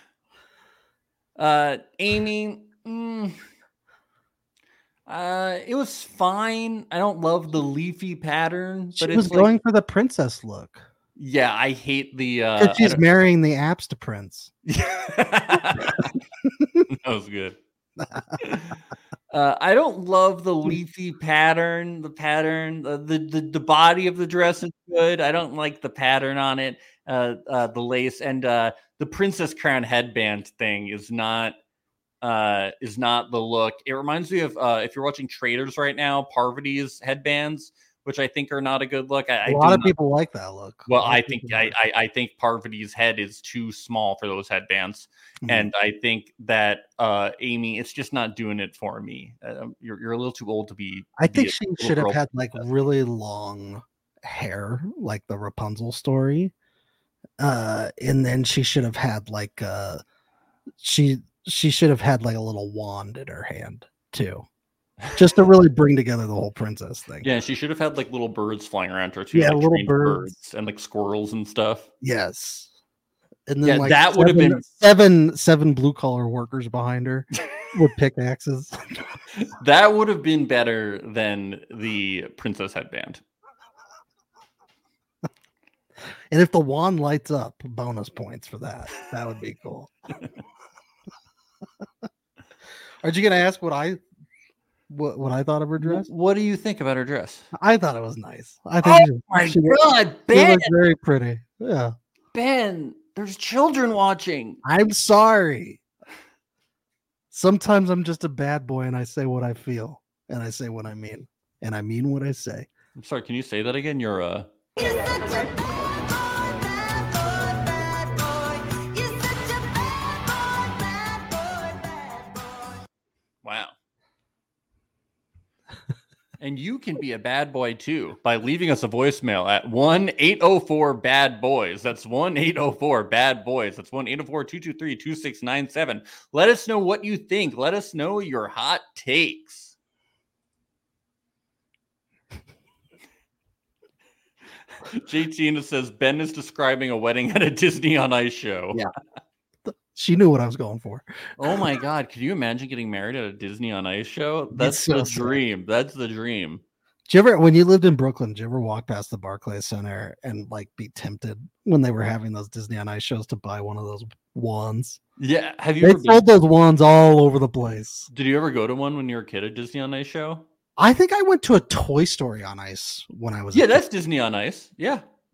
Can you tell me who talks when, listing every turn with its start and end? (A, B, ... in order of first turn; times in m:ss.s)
0:01.4-0:03.4 A
0:05.1-0:09.5 A
0:09.0-0:10.8 B
0:11.2-0:13.0 A
0:12.6-0:14.5 B
0:14.7-0:16.1 A
0:15.8-0:16.8 B
0:16.9-0:17.6 A
0:18.0-0:18.4 B
0:18.4-0:18.8 A
0:19.3-0:31.5 A
0:32.2-0:39.9 A
0:39.4-0:41.7 B
0:40.9-0:52.2 A
0:45.4-0:45.7 B
0:51.2-0:56.5 B
0:57.4-1:00.0 B
1:00.8-1:04.4 B
1:05.1-1:07.3 B
1:07.2-1:11.9 A
1:09.3-1:10.3 B
1:12.0-1:12.7 B
1:13.5-1:18.8 B
1:13.6-1:14.6 A
1:19.4-1:23.2 A
1:26.3-1:29.9 B
1:33.0-1:34.0 B
1:34.9-1:36.1 B
1:35.8-1:37.5 A
1:37.5-1:41.9 B
1:38.8-1:40.7 A
1:42.3-1:44.6 A
1:44.6-1:45.8 B
1:47.3-1:52.7 B
1:53.0-1:54.5 A
2:03.4-2:03.7 A
2:06.4-2:19.7 A
2:24.9-2:28.8 A
2:29.6-2:31.6 B
2:31.4-2:36.6 A
2:34.5-2:35.4 B
2:37.1-2:45.0 B
2:45.2-2:46.2 A
2:45.8-2:48.1 B
2:48.1-2:50.4 A
2:50.8-2:53.8 B
2:53.5-2:55.0 A